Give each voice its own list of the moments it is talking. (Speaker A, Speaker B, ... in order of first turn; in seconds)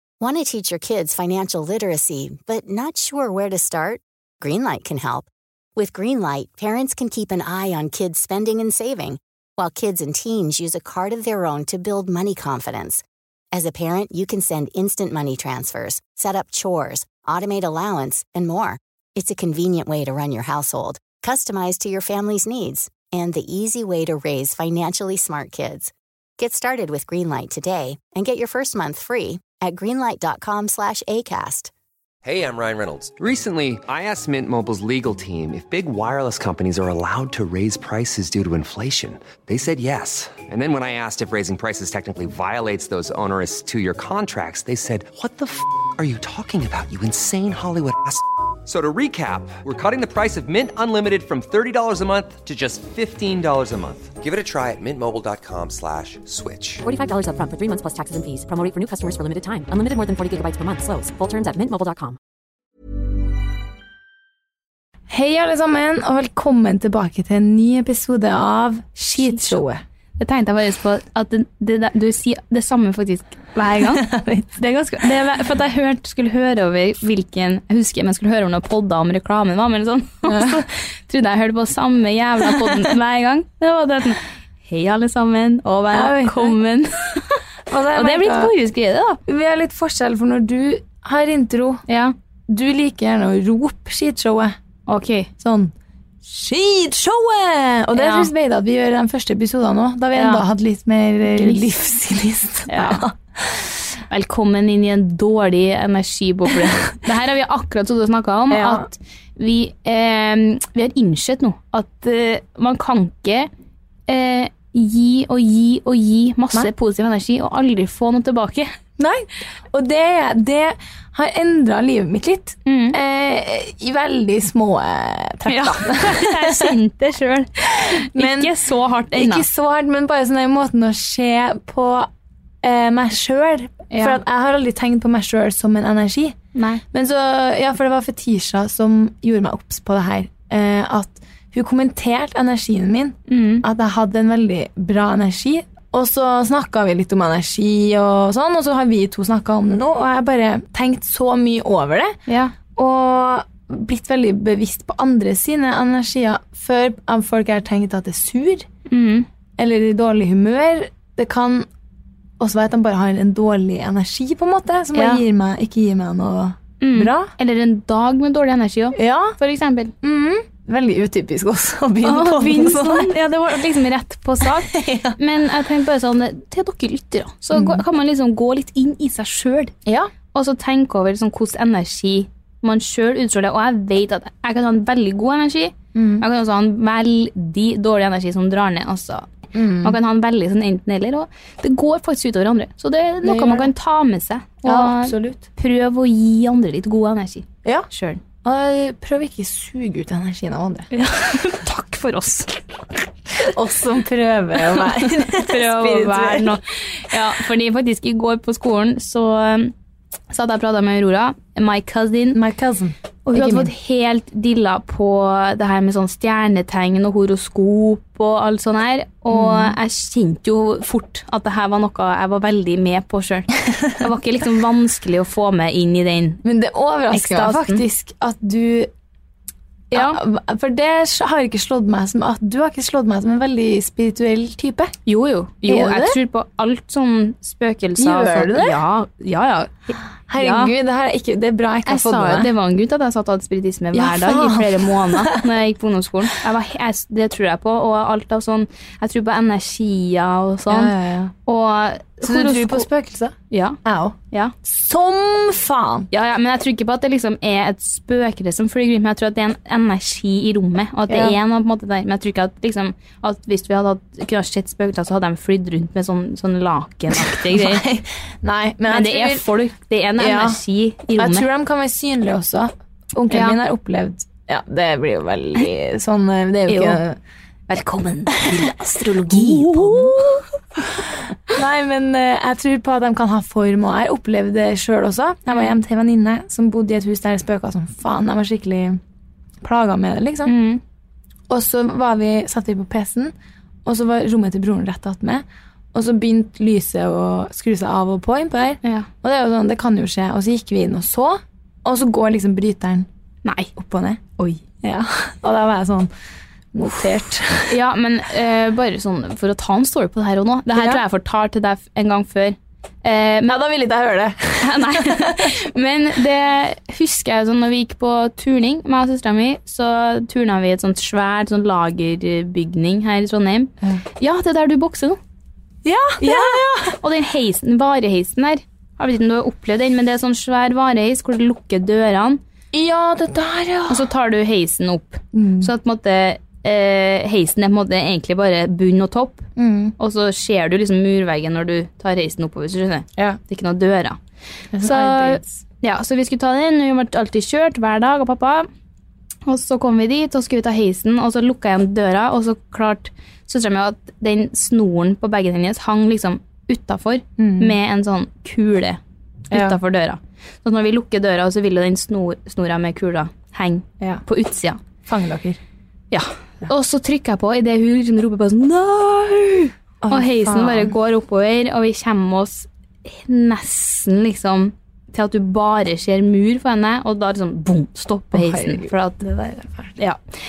Speaker A: 0.2-31.7
Speaker B: 32.2-56.8
Speaker C: 56.8-62.2
Speaker D: 65.1-69.8, 73.8-74.6, 80.2-80.7, 82.4-82.9, 85.9-86.5, 87.7-88.5, 89.2-91.8, 92.5-94.5, 95.4-103.8, 108.5-108.9, 119.0-126.8, 127.9-128.5, 129.1-132.1, 132.6-136.4, 136.9-152.2, 152.7-158.7, 159.6-161.7, 162.4-167.3, 168.9-169.3, 170.0-173.1, 174.4-175.2, 177.5-177.8, 179.8-180.1, 185.9-186.2, 189.5-190.0, 193.2-193.7, 194.6-195.4, 198.4-200.9, 203.4-206.6, 212.3-213.7, 219.3-219.8, 226.4-228.9, 229.9-234.9, 235.7-236.2, 237.9-238.8, 240.3-242.5, 243.9-245.5, 250.7-251.3, 252.2-256.1, 261.1-261.4, 267.1-269.5, 270.2-270.6, 271.1-277.2, 278.4-278.7, 279.3-289.0, 289.6-290.5, 291.5-293.3, 293.8-303.1, 303.7-304.2, 304.8-306.1, 306.7-307.8, 310.7-311.0, 313.4-315.6, 325.8-327.0, 332.7-334.1, 335.3-335.7, 339.6-339.9, 344.7-345.6, 357.4-357.8, 359.5-359.8, 365.1-365.6, 370.0-370.9, 378.3-380.0
Speaker E: 69.2-69.6, 70.2-87.4, 87.9-89.2, 91.9-92.1, 94.9-95.3, 97.9-98.3, 100.1-100.4, 101.3-101.6, 102.7-103.0, 104.1-113.5, 114.1-118.7, 122.6-123.0, 125.4-129.4, 133.9-134.2, 136.5-136.8, 143.3-143.6, 152.3-152.5, 158.9-159.2, 164.9-165.2, 166.8-169.9, 172.0-179.7, 180.3-189.3, 189.8-198.2, 200.9-202.6, 205.0-209.7, 210.3-212.4, 213.2-226.4, 227.1-227.8, 229.9-230.2, 235.1-240.7, 241.8-250.9, 251.4-252.9, 253.5-253.8, 256.1-267.9, 268.9-271.4, 273.3-273.6, 276.7-277.0, 277.7-280.4, 290.4-290.8, 303.4-303.7, 304.4-304.6, 307.7-313.6, 314.6-325.2, 326.2-332.4, 333.9-339.4, 340.0-344.2, 344.8-348.7, 349.4-364.8, 366.1-379.2